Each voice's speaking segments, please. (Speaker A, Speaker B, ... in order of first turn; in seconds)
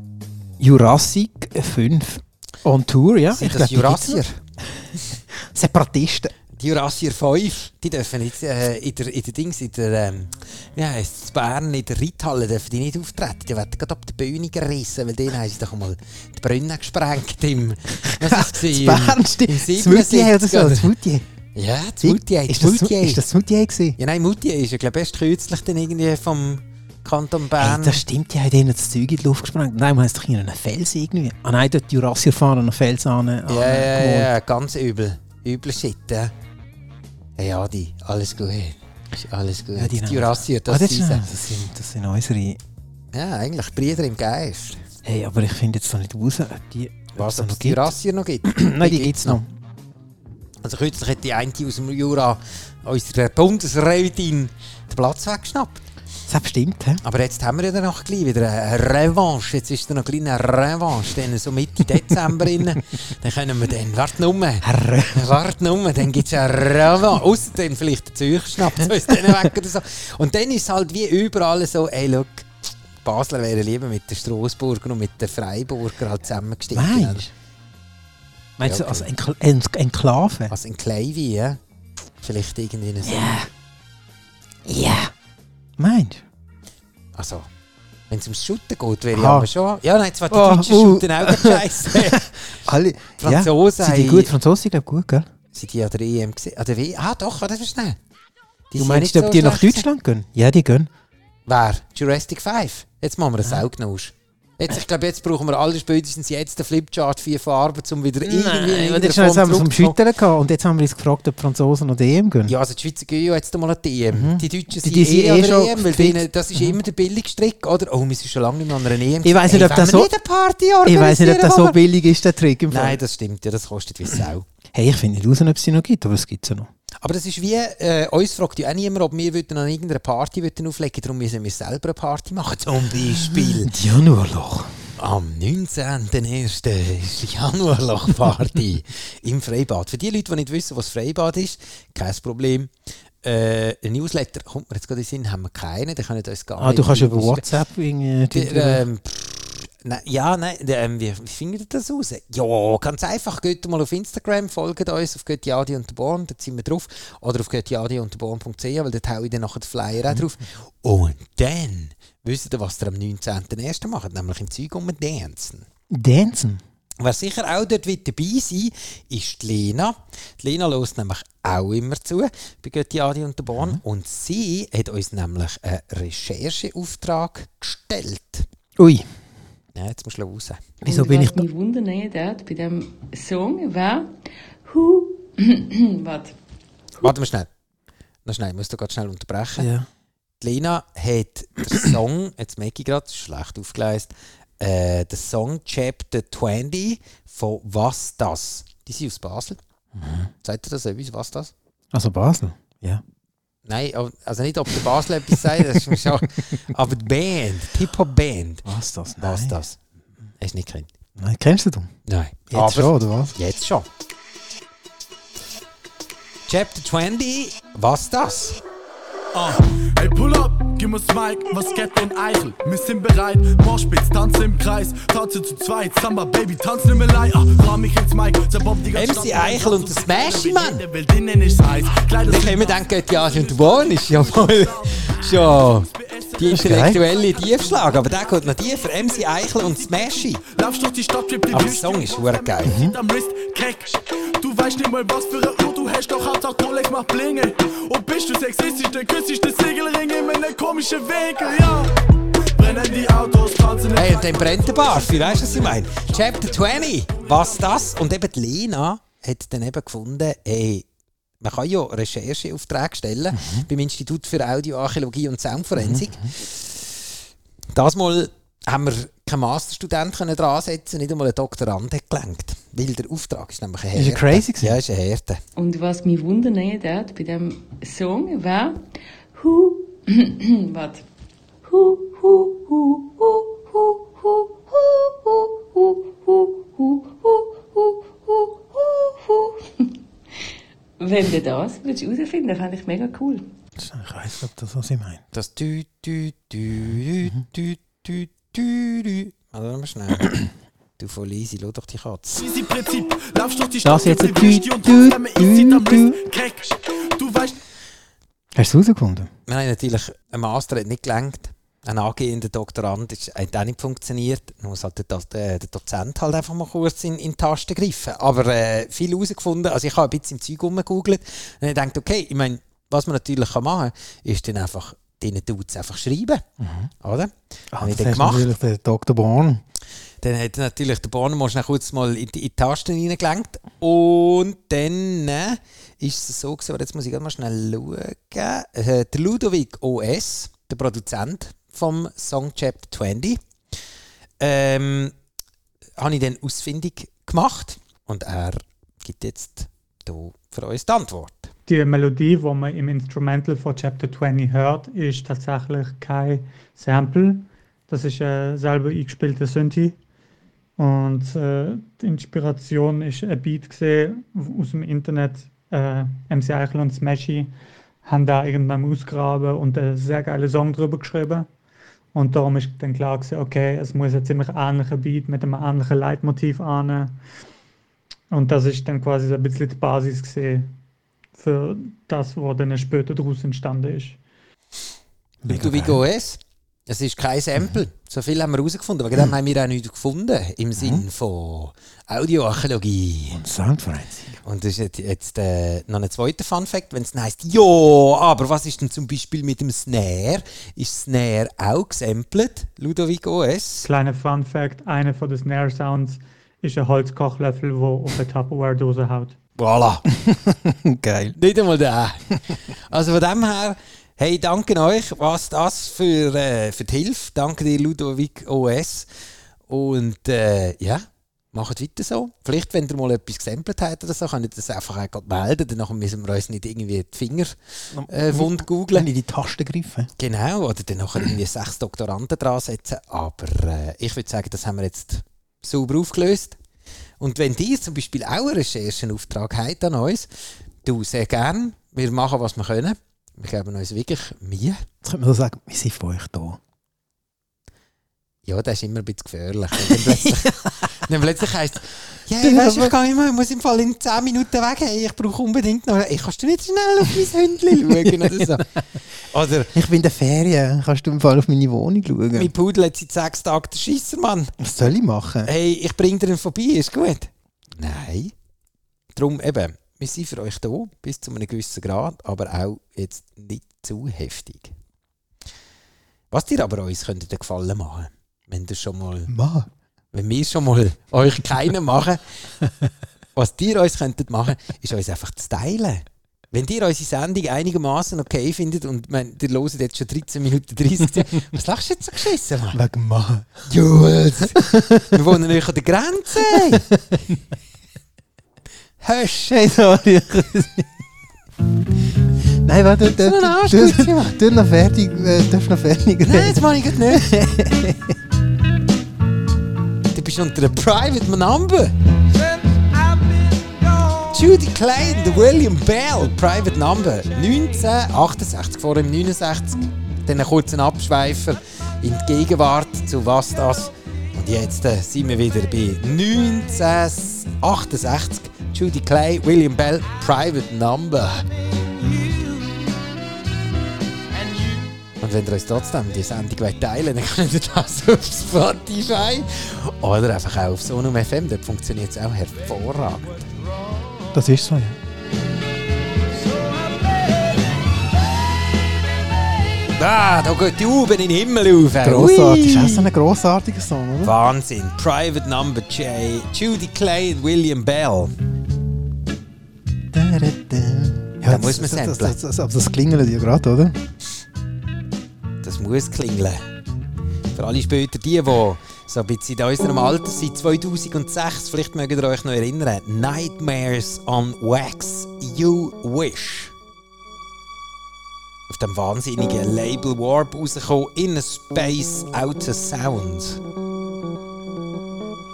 Speaker A: 0.6-4.2, 4.8-6.3, 18.0-21.2, 22.0-24.0, 27.6-34.3, 39.8-42.6, 45.0-47.9, 48.5-49.5, 56.3-57.0, 64.6-65.4, 69.1-69.5, 76.7-77.3, 78.6-80.5, 83.0-83.5, 84.7-85.1, 85.8-86.2, 89.1-89.5, 90.3-95.3, 98.8-100.9, 108.2-112.6, 114.1-116.8, 119.2-120.1, 120.8-123.0, 124.7-126.7, 133.2-134.8, 146.6-148.8, 165.9-166.6, 173.5-173.8, 178.8-179.1, 180.8-181.5, 189.6-189.9, 200.0-200.3, 201.9-203.0, 205.3-206.6, 208.7-209.6, 211.2-211.9, 212.5-213.3, 236.5-237.0, 242.6-243.0, 263.3-263.7, 265.8-266.3, 273.9-274.8, 293.8-295.2, 303.8-306.2, 308.6-309.3, 326.6-326.9, 327.7-329.6, 385.4-386.0, 390.8-391.1, 393.3-394.4, 410.1-411.4, 427.9-430.1, 445.0-446.6, 449.8-450.7, 452.4-453.0, 457.9-458.6, 459.7-462.5, 464.6-465.5, 479.3-479.7, 492.7-493.7, 494.4-495.2, 496.4-497.2, 499.2-500.9, 502.6-508.2, 544.3-545.0, 552.0-554.4, 560.1-564.0
Speaker B: 3.3-4.4, 6.5-20.9, 21.6-23.2, 24.0-28.0, 33.5-36.3, 37.4-41.2, 43.1-44.8, 47.2-49.4, 50.6-55.8, 57.0-72.5, 73.0-77.2, 78.6-79.1, 80.5-81.6, 82.2-83.4, 87.2-87.5, 88.1-92.6, 93.2-94.3, 95.5-98.0, 98.7-99.8, 101.5-110.0, 112.5-121.8, 122.7-124.5, 127.0-133.7, 135.0-147.5, 148.3-165.7, 167.0-178.5, 179.8-180.7, 187.0-187.5, 188.2-189.7, 190.4-199.6, 200.4-201.5, 203.7-208.7, 209.2-209.8, 210.4-210.9, 212.1-213.9, 216.5-218.6, 228.9-230.8, 232.3-240.4, 241.5-242.8, 253.9-260.9, 261.4-267.0, 267.7-275.4, 295.3-300.4, 301.0-302.5, 309.5-326.4, 327.0-328.5, 330.2-343.4, 344.4-345.1, 346.0-351.5, 385.5-393.4, 394.4-403.9, 409.6-410.1, 411.4-412.4, 412.9-419.1, 419.7-427.6, 428.1-429.1, 430.2-436.6, 437.2-440.3, 440.8-444.8, 448.5-458.7, 459.3-459.7, 462.4-464.5, 465.5-468.3, 469.1-474.7, 476.3-479.3, 480.1-482.2, 483.4-492.8, 493.7-496.9, 499.0-499.4, 503.2-504.4, 506.2-507.3, 510.1-511.9, 514.3-531.5, 535.2-543.5, 549.9-553.1, 554.2-558.3, 561.5-562.4, 565.6-566.6, 567.5-576.7, 578.7-583.6
Speaker C: 180.9-184.1, 184.7-186.4, 275.6-278.8, 279.3-281.1, 281.6-290.0, 291.0-293.5
Speaker D: 219.3-252.0, 252.5-257.6, 302.3-307.6
Speaker E: 351.7-360.0, 360.8-367.5, 368.1-371.5, 372.1-377.2, 378.3-380.7, 381.4-384.2, 403.8-409.4